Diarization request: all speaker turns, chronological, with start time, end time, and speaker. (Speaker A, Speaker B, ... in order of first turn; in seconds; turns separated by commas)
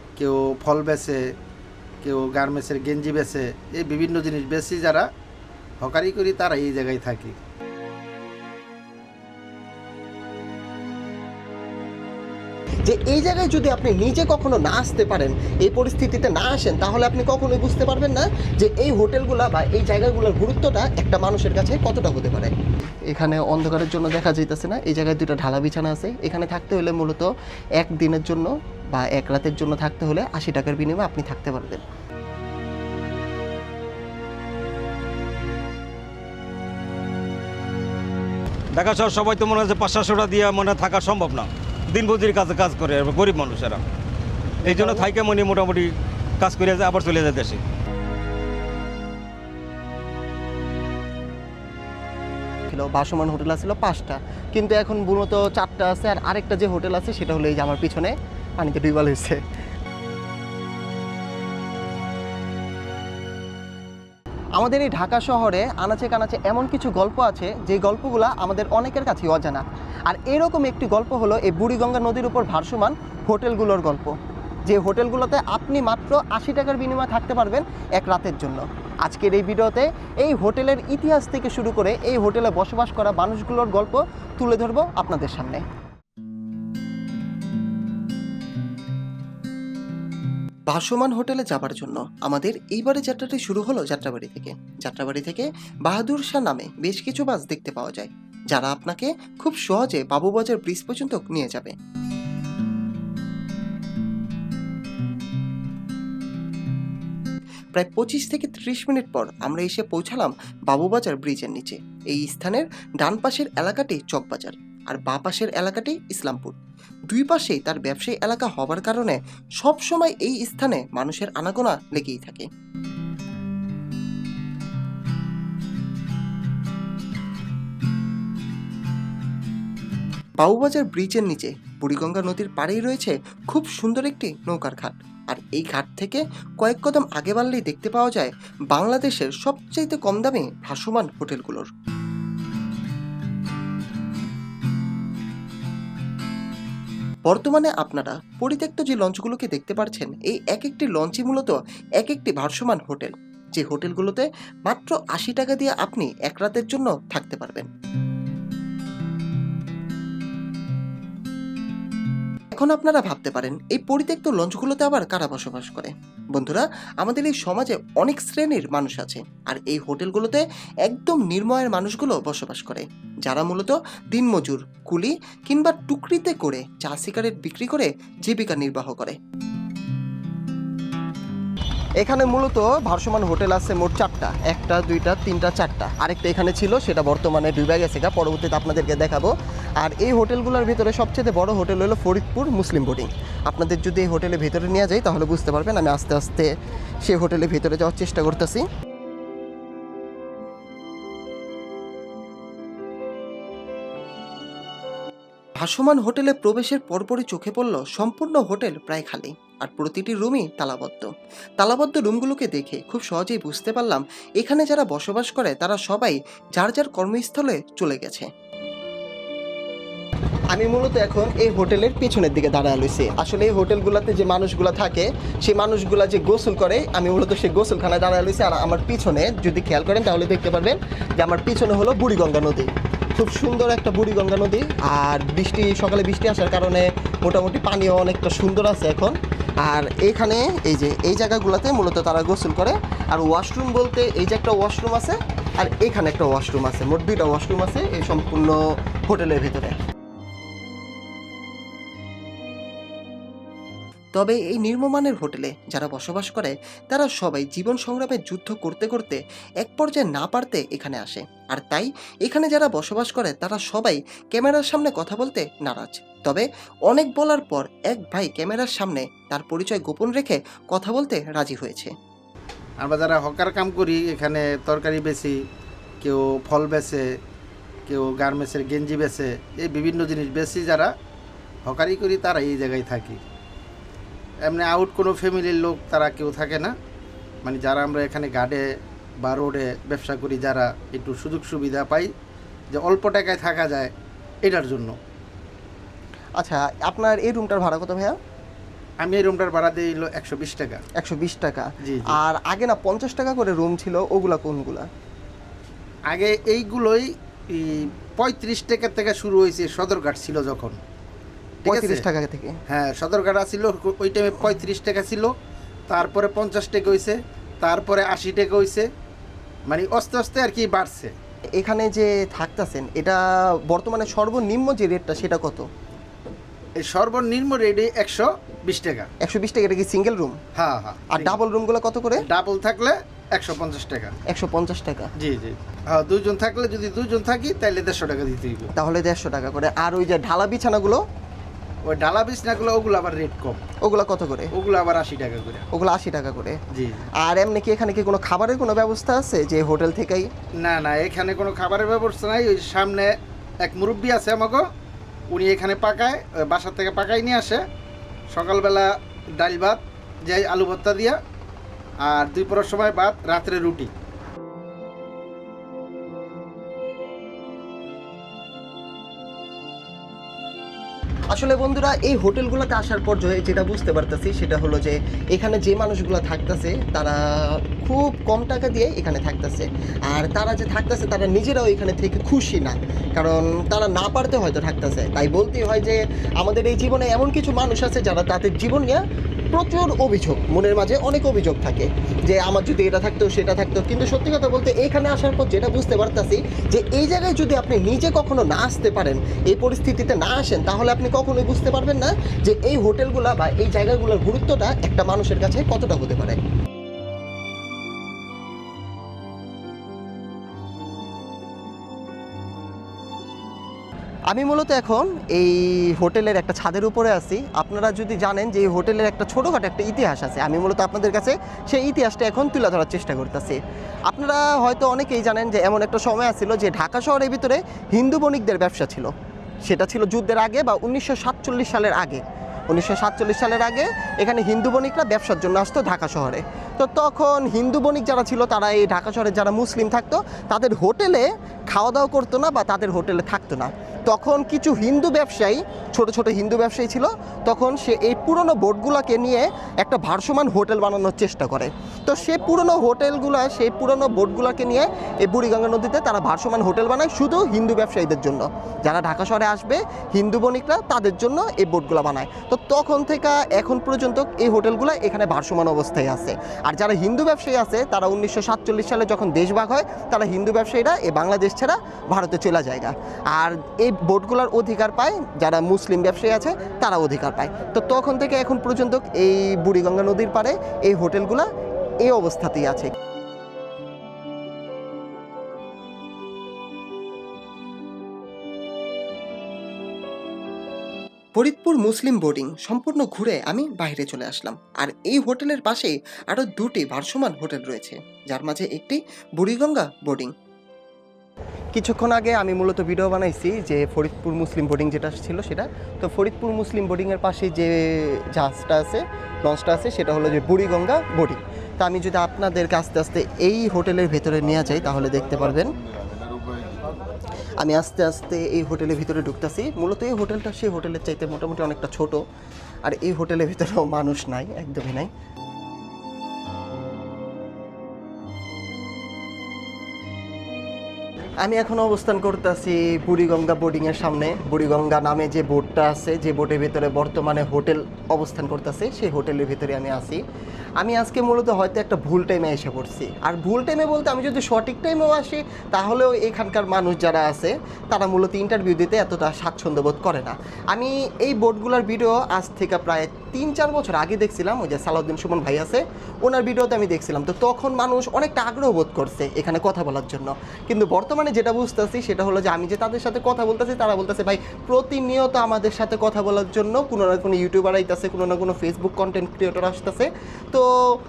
Speaker A: 0.2-1.2, Speaker A: 2.0-5.1, Speaker A: 5.8-7.4, Speaker B: 12.8-22.5, Speaker B: 23.1-27.3, Speaker B: 27.8-31.8, Speaker C: 38.7-43.8, Speaker C: 44.6-47.6, Speaker B: 44.7-45.1, Speaker B: 52.7-59.4, Speaker B: 64.6-74.1, Speaker B: 74.7-85.6, Speaker B: 90.7-101.7, Speaker B: 107.8-116.5, Speaker B: 117.1-122.5, Speaker B: 130.4-141.7, Speaker B: 147.3-157.7, Speaker B: 162.5-179.2, Speaker B: 182.0-196.5, Speaker B: 197.0-198.7, Speaker B: 205.6-211.1, Speaker B: 211.6-218.3, Speaker B: 220.5-248.6, Speaker B: 249.1-249.8, Speaker B: 254.2-271.9, Speaker A: 272.8-275.4, Speaker A: 276.0-277.1, Speaker A: 277.9-280.9, Speaker A: 281.7-283.2, Speaker A: 284.4-286.7, Speaker A: 287.4-288.7, Speaker A: 289.2-292.1, Speaker A: 292.7-293.9, Speaker A: 294.4-294.9, Speaker B: 296.4-298.2, Speaker A: 299.0-300.8, Speaker B: 301.0-304.9, Speaker A: 301.8-302.2, Speaker A: 306.1-310.8, Speaker A: 311.6-312.0, Speaker B: 311.7-312.6, Speaker A: 312.7-315.3, Speaker A: 315.9-318.9, Speaker A: 319.7-321.1, Speaker B: 321.6-323.2, Speaker B: 323.7-325.6, Speaker A: 326.8-329.1, Speaker B: 329.2-330.4, Speaker A: 330.6-331.4, Speaker B: 331.1-332.2, Speaker A: 332.3-334.1, Speaker B: 334.3-335.1, Speaker A: 335.2-338.7, Speaker B: 338.8-341.0, Speaker A: 341.9-343.6, Speaker B: 343.8-344.5, Speaker A: 344.5-345.6, Speaker B: 345.7-346.6, Speaker A: 346.7-347.1, Speaker B: 347.2-350.3, Speaker A: 350.6-353.1, Speaker A: 353.6-354.6, Speaker A: 355.3-357.6, Speaker A: 358.3-361.2, Speaker A: 362.0-363.9, Speaker B: 371.3-389.0, Speaker B: 389.5-406.4, Speaker B: 414.3-423.6, Speaker B: 424.1-429.1, Speaker B: 429.7-481.5, Speaker B: 482.0-482.9, Speaker B: 491.4-500.3, Speaker B: 501.7-515.7, Speaker B: 517.6-522.2, Speaker B: 522.9-525.1, Speaker B: 531.4-540.2, Speaker B: 540.8-570.7